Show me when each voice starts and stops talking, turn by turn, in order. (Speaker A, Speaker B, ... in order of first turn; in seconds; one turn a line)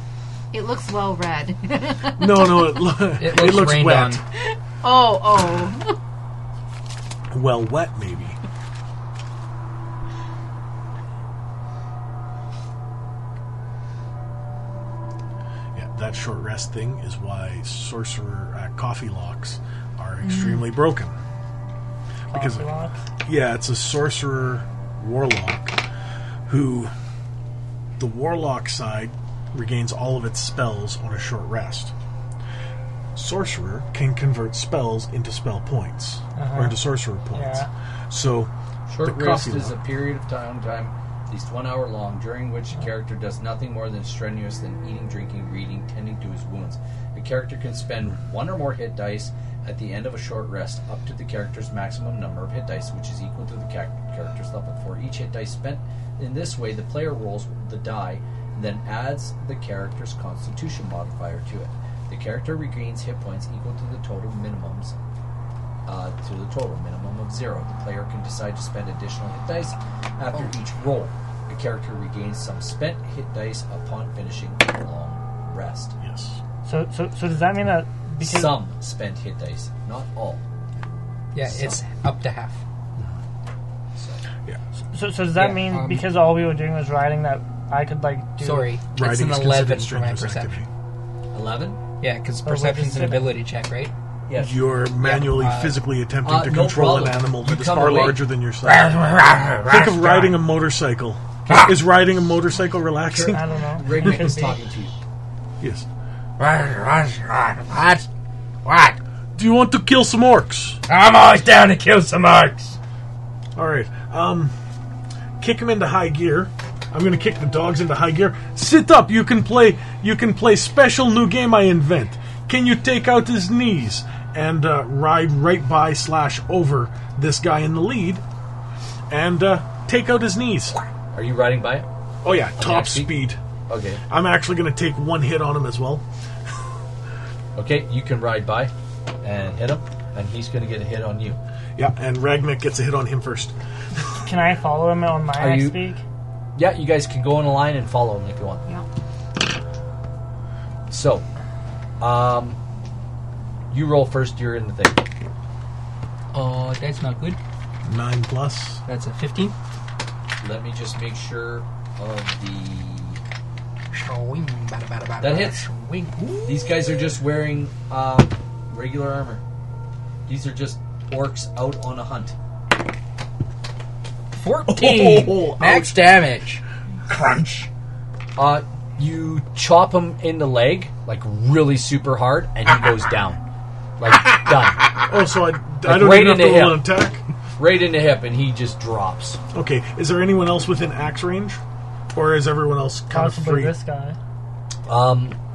Speaker A: 0.5-3.0
Speaker B: 2.2-4.2
Speaker C: 3.2-4.2
Speaker A: 4.4-6.0
Speaker B: 7.3-8.4
Speaker B: 15.7-21.2
Speaker A: 20.2-20.7
Speaker D: 22.3-23.0
Speaker B: 22.3-22.7
Speaker B: 23.2-25.8
Speaker B: 26.5-26.9
Speaker B: 28.0-31.9
Speaker B: 33.1-38.5
Speaker D: 36.4-36.8
Speaker D: 37.3-37.7
Speaker E: 38.9-65.0
Speaker B: 39.0-39.8
Speaker E: 65.9-76.0
Speaker B: 76.0-76.4
Speaker D: 76.7-78.6
Speaker E: 78.2-80.4
Speaker C: 81.3-82.6
Speaker E: 81.5-81.8
Speaker E: 84.0-84.2
Speaker D: 84.9-88.8
Speaker C: 85.3-86.1
Speaker C: 88.4-90.7
Speaker B: 88.9-90.7
Speaker E: 91.3-91.8
Speaker C: 92.0-93.9
Speaker D: 92.5-93.3
Speaker E: 94.3-94.6
Speaker B: 94.3-98.9
Speaker C: 94.9-95.8
Speaker E: 96.2-98.2
Speaker C: 98.6-100.4
Speaker B: 99.7-103.5
Speaker C: 101.5-101.8
Speaker E: 103.1-105.0
Speaker D: 103.2-104.6
Speaker B: 105.6-105.9
Speaker C: 106.4-108.1
Speaker C: 108.7-109.0
Speaker B: 109.3-110.8
Speaker C: 110.9-112.8
Speaker B: 113.6-114.5
Speaker B: 115.4-128.2
Speaker B: 129.1-130.8
Speaker E: 131.1-131.9
Speaker B: 132.2-133.4
Speaker E: 132.6-134.0
Speaker B: 134.1-136.0
Speaker E: 137.6-141.4
Speaker B: 141.8-144.1
Speaker D: 144.2-146.0
Speaker E: 145.4-145.9
Speaker E: 146.6-148.7
Speaker E: 150.9-151.3
Speaker E: 152.0-152.6
Speaker E: 153.7-155.0
Speaker C: 156.3-157.4
Speaker B: 157.8-158.8
Speaker C: 158.9-159.6
Speaker E: 160.4-163.2
Speaker C: 163.9-166.8
Speaker E: 165.2-165.7
Speaker E: 166.4-169.4
Speaker E: 170.3-172.3
Speaker C: 174.3-177.7
Speaker B: 174.7-176.2
Speaker E: 178.4-183.4
Speaker E: 184.0-184.9
Speaker B: 185.1-187.2
Speaker E: 185.8-186.9
Speaker E: 187.6-189.4
Speaker B: 189.5-191.6
Speaker B: 192.1-193.8
Speaker D: 193.1-194.2
Speaker E: 194.9-195.4